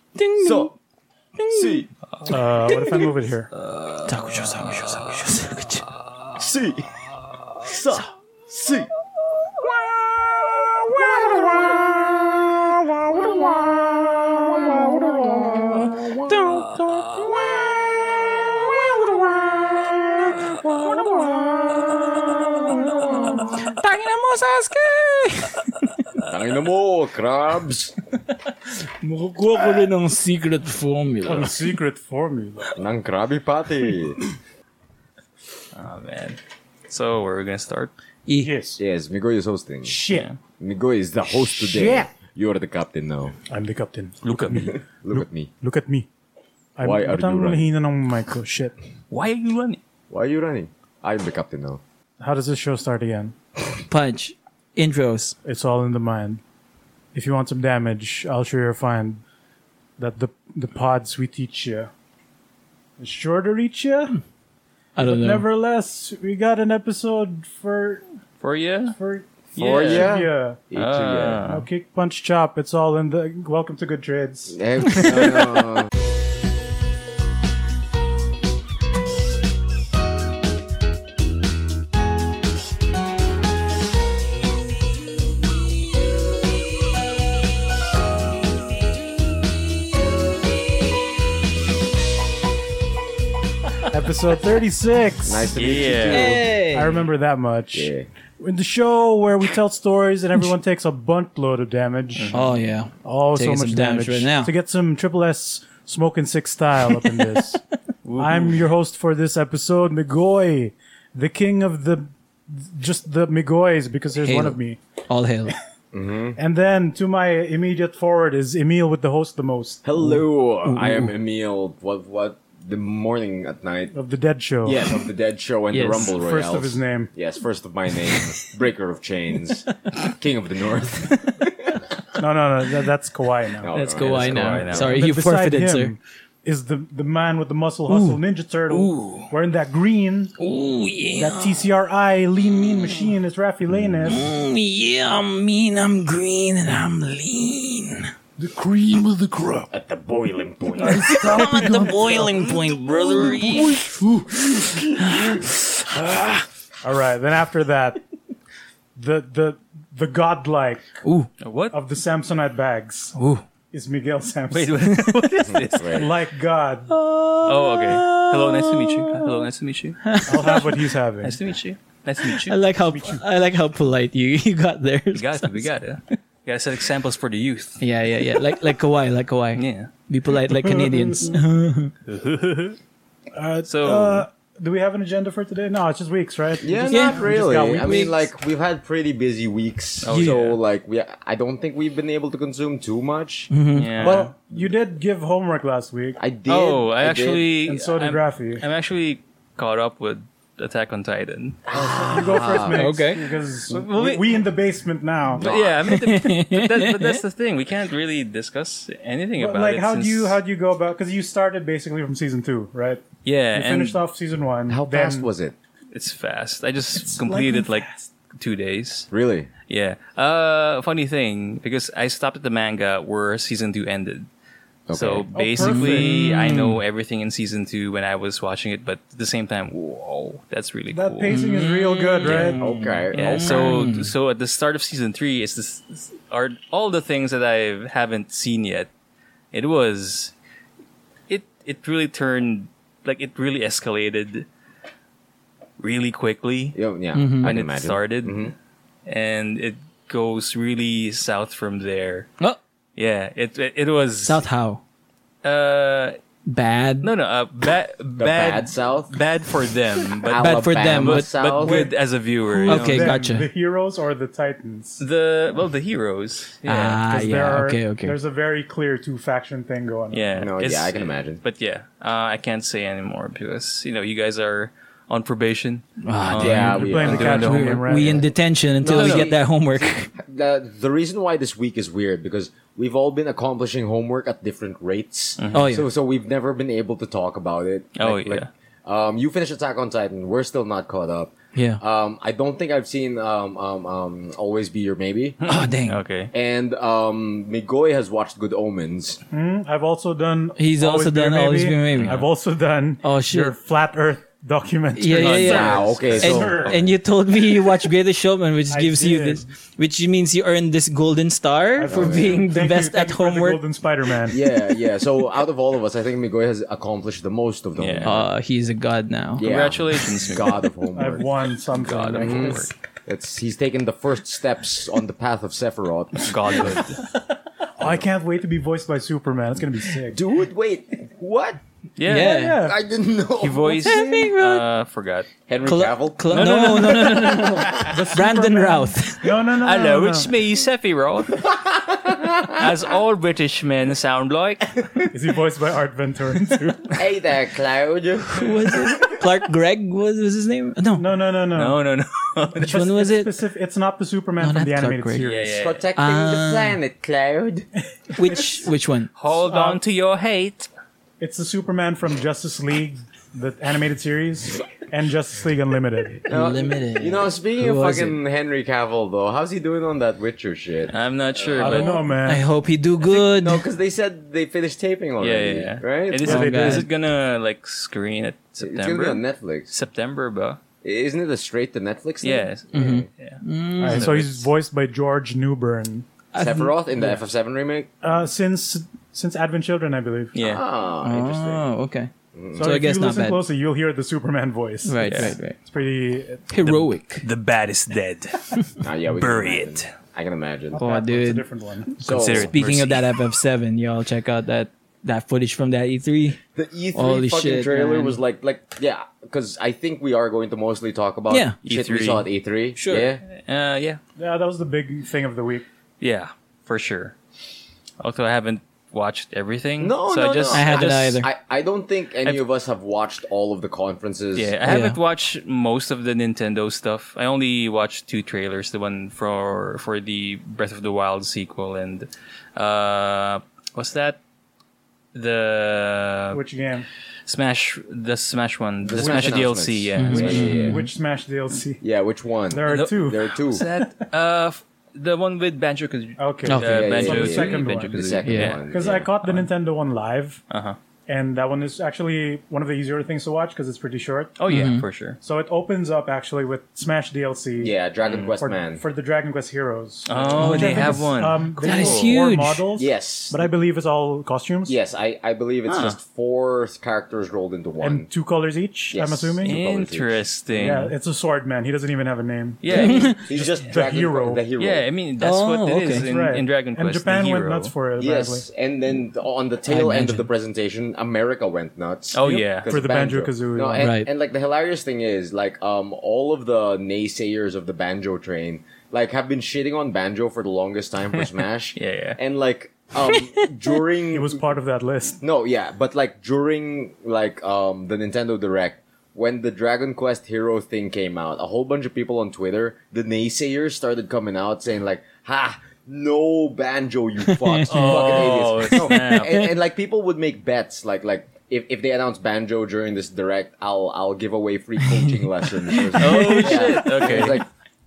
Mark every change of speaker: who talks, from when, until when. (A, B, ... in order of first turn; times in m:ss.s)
0:00.2-0:00.7 A
0:00.4-0:00.7 B
0:01.4-0:01.8 A
0:01.5-0:01.9 B
0:02.2-0:02.8 C
0:02.3-0:03.5 D
0:02.7-0:03.0 A
0:03.6-0:06.5 C
0:04.0-0:05.9 A
0:06.4-0:07.0 B
0:07.6-0:08.9 B
0:10.8-0:11.6 B
0:11.2-0:11.8 A
0:14.9-0:17.5 A
0:15.5-0:16.1 B
0:18.3-0:25.9 A
0:26.2-0:28.0 B
0:29.0-0:31.7 A
0:31.2-0:32.8 D
0:32.8-0:34.2 B
0:35.7-0:36.4 C
0:36.9-0:37.9 C
0:38.3-0:38.5 A
0:38.4-0:38.8 D
0:38.8-0:40.0 B
0:39.8-0:40.2 D
0:40.1-0:40.4 C
0:40.6-0:43.3 B
0:41.6-0:42.1 D
0:43.5-0:46.1 D
0:44.2-0:44.7 C
0:44.5-0:45.5 B
0:46.8-0:48.7 D
0:46.8-0:47.7 B
0:49.1-0:49.8 C
0:50.1-0:51.8 B
0:52.2-0:53.3 D
0:53.9-0:55.3 A
0:55.4-0:56.4 D
0:57.1-0:59.2 D
1:00.0-1:01.9 D
1:03.0-1:04.2 D
1:05.0-1:05.4 A
1:05.0-1:08.0 D
1:08.4-1:09.0 C
1:09.0-1:10.6 D
1:09.5-1:10.1 C
1:09.6-1:11.4 B
1:10.7-1:11.7 C
1:11.4-1:14.6 D
1:14.5-1:15.9 B
1:33.9-1:42.3 D
1:35.2-1:36.5 B
1:35.5-1:36.3 C
1:36.1-1:37.0 A
1:37.7-1:38.1 B
1:42.1-1:42.4 C
1:42.3-1:44.5 A
1:43.0-1:47.6 D
1:48.0-1:48.7 C
1:48.2-1:54.8 D
1:54.2-1:55.5 A
1:55.9-1:56.4 B
1:56.4-1:59.8 D
1:59.8-2:03.9 B
2:00.0-2:01.1 A
2:03.9-2:04.9 D
2:04.6-2:11.8 B
2:05.7-2:06.1 A
2:06.2-2:07.1 D
2:12.1-2:13.7 D
2:13.6-2:14.9 B
2:13.7-2:15.9 A
2:14.0-2:15.1 C
2:14.7-2:20.3 D
2:17.9-2:18.2 A
2:18.7-2:19.3 A
2:20.4-2:21.6 A
2:21.1-2:24.2 D
2:22.5-2:23.1 A
2:24.0-2:28.1 A
2:28.4-2:29.7 D
2:29.7-2:31.4 B
2:30.8-2:35.2 D
2:30.8-2:33.9 A
2:35.0-2:35.5 A
2:36.8-2:38.0 D
2:39.0-2:41.0 D
2:41.0-2:41.3 A
2:41.4-2:41.8 C
2:41.7-2:43.2 D
2:43.2-2:43.4 A
2:43.7-2:45.0 D
2:44.5-2:46.0 C
2:45.4-2:46.1 B
2:45.8-2:46.9 D
2:46.9-2:49.4 A
2:47.4-2:50.6 C
2:50.0-2:50.8 A
2:50.2-2:51.4 D
2:51.2-2:52.6 C
2:52.2-2:55.7 A
2:52.9-2:53.2 D
2:55.1-2:57.8 C
2:57.8-3:01.9 A
2:59.6-2:59.9 C
3:00.4-3:01.4 D
3:02.1-3:02.8 C
3:03.3-3:08.2 D
3:03.6-3:04.2 C
3:06.6-3:13.5 B
3:06.9-3:08.1 A
3:10.0-3:10.6 C
3:10.1-3:10.4 A
3:13.5-3:14.2 A
3:13.7-3:14.3 C
3:14.0-3:16.2 D
3:16.2-3:17.4 B
3:16.5-3:21.6 C
3:17.6-3:18.6 D
3:21.7-3:22.8 B
3:21.7-3:25.5 D
3:22.1-3:22.8 C
3:22.7-3:23.2 A
3:23.7-3:24.4 C
3:25.4-3:25.7 B
3:25.4-3:30.4 C
3:25.9-3:27.2 A
3:29.4-3:35.3 D
3:33.2-3:34.0 C
3:34.7-3:35.5 B
3:35.9-3:39.1 C
3:37.0-3:38.1 D
3:39.1-3:39.5 B
3:39.7-3:44.3 C
3:44.9-3:45.3 B
3:44.9-3:51.4 C
3:45.3-3:46.2 D
3:45.6-3:46.8 A
3:50.9-3:52.6 D
3:51.3-3:54.1 A
3:52.2-3:52.6 C
3:52.6-3:53.7 B
3:53.1-3:58.9 C
3:59.5-4:00.3 C
4:01.3-4:04.5 C
4:05.8-4:06.8 C
4:06.7-4:08.5 B
4:07.1-4:07.5 A
4:07.4-4:08.5 C
4:09.0-4:12.3 C
4:13.0-4:14.4 C
4:14.2-4:14.8 A
4:15.4-4:16.2 C
4:16.4-4:17.1 A
4:17.0-4:23.2 C
4:18.2-4:19.1 B
4:20.2-4:21.9 B
4:20.4-4:21.3 A
4:21.6-4:21.9 D
4:22.6-4:25.0 D
4:22.6-4:23.5 A
4:25.0-4:27.0 C
4:26.6-4:28.2 A
4:27.0-4:30.3 D
4:30.1-4:38.1 C
4:30.4-4:31.4 B
4:36.0-4:40.1 A
4:36.4-4:37.5 B
4:36.7-4:38.3 D
4:38.8-4:55.4 B
4:38.9-4:39.3 C
4:45.4-4:45.7 C
4:45.5-4:45.9 A
4:48.0-4:48.5 C
4:51.5-4:51.8 A
4:55.4-4:56.3 C
4:55.4-4:56.0 A
4:56.3-4:59.2 B
4:59.3-5:06.8 D
5:00.6-5:02.2 A
5:01.9-5:02.3 C
5:03.0-5:03.5 A
5:04.9-5:13.6 A
5:05.1-5:06.2 C
5:05.4-5:06.9 B
5:08.7-5:09.4 D
5:11.8-5:14.4 D
5:11.9-5:12.5 B
5:14.3-5:18.2 B
5:17.8-5:18.2 C
5:18.0-5:19.5 A
5:19.4-5:21.2 B
5:19.4-5:20.5 C
5:21.0-5:22.7 D
5:21.7-5:22.7 C
5:22.2-5:26.8 B
5:26.2-5:27.0 C
5:27.8-5:30.2 D
5:30.1-5:31.6 B
5:32.0-5:32.4 C
5:32.0-5:32.7 A
5:32.1-5:32.8 D
5:32.5-5:33.8 B
5:33.4-5:35.3 C
5:33.8-5:34.3 D
5:33.8-5:34.7 A
5:35.5-5:36.5 B
5:35.6-5:39.3 A
5:36.3-5:37.8 C
5:37.8-5:40.3 D
5:39.6-5:41.6 C
5:41.8-5:42.6 B
5:42.5-5:44.8 C
5:45.1-5:47.0 D
5:46.9-5:49.0 B
5:48.3-5:51.1 A
5:50.9-5:51.8 D
5:51.5-5:52.7 C
5:52.6-5:53.3 A
5:52.6-5:55.6 D
5:54.4-5:55.3 A
5:55.2-5:55.8 C
5:55.6-5:57.7 B
5:56.0-5:56.8 A
5:58.1-5:58.7 D
5:58.1-5:59.1 A
5:59.2-6:00.7 C
5:59.3-5:59.8 D
6:01.2-6:06.2 D
6:06.2-6:12.0 B
6:06.3-6:08.2 A
6:10.9-6:12.1 C
6:11.6-6:12.4 D
6:12.2-6:13.6 A
6:13.0-6:16.2 B
6:15.2-6:20.6 C
6:16.2-6:16.9 D
6:16.2-6:16.9 A
6:18.6-6:19.7 B
6:20.8-6:23.1 B
6:22.2-6:24.5 C
6:22.7-6:24.1 A
6:23.8-6:26.1 D
6:26.3-6:26.7 A
6:26.4-6:27.9 B
6:28.0-6:30.3 D
6:30.3-6:30.6 C
6:30.4-6:31.6 B
6:31.0-6:33.4 A
6:32.3-6:32.8 B
6:32.5-6:36.7 D
6:34.8-6:35.6 A
6:35.0-6:35.3 C
6:36.5-6:37.2 A
6:37.2-6:39.9 C
6:38.8-6:40.8 B
6:40.7-6:41.9 D
6:40.8-6:41.4 A
6:42.0-6:43.1 C
6:42.0-6:42.5 B
6:42.3-6:46.4 A
6:46.5-6:53.2 B
6:46.9-6:48.2 A
6:51.3-6:51.6 A
6:51.6-6:52.3 C
6:52.8-6:53.1 A
6:53.3-6:54.0 C
6:54.2-6:55.6 D
6:56.0-6:57.1 C
6:58.0-7:01.2 C
6:59.8-7:04.6 B
7:00.5-7:01.3 A
7:04.4-7:14.2 C
7:04.6-7:05.0 A
7:15.1-7:16.4 C
7:16.3-7:16.9 D
7:17.3-7:20.5 C
7:18.8-7:20.9 B
7:20.0-7:20.8 A
7:20.1-7:21.8 D
7:21.8-7:23.6 B
7:22.5-7:23.9 D
7:22.7-7:28.7 C
7:26.2-7:30.4 D
7:26.4-7:26.9 A
7:26.6-7:29.1 B
7:28.2-7:28.6 A
7:29.2-7:29.5 C
7:30.5-7:30.8 C
7:31.1-7:34.4 D
7:34.4-7:35.2 C
7:34.5-7:34.8 A
7:35.2-7:37.8 D
7:37.6-7:38.8 B
7:38.0-7:38.4 C
7:38.4-7:44.8 D
7:40.1-7:42.2 C
7:40.1-7:40.6 B
7:40.4-7:41.0 A
7:41.6-7:42.6 A
7:42.7-7:43.4 B
7:44.6-7:48.1 B
7:45.7-7:46.0 C
7:47.8-7:49.6 D
7:48.9-7:50.2 B
7:49.4-7:50.9 C
7:50.6-7:54.4 D
7:52.6-7:53.1 C
7:52.7-7:53.2 A
7:53.2-7:54.8 B
7:54.6-7:57.7 C
7:55.2-7:56.0 A
7:55.9-7:58.4 D
7:58.0-8:14.4 B
7:59.7-8:00.3 A
8:02.1-8:02.7 C
8:02.2-8:03.9 D
8:03.8-8:04.1 A
8:11.7-8:12.2 C
8:13.1-8:13.5 A
8:14.1-8:15.2 D
8:15.2-8:37.5 B
8:27.2-8:29.5 A
8:27.7-8:29.4 C
8:34.9-8:35.2 A
8:35.7-8:36.7 A
8:35.9-8:37.4 C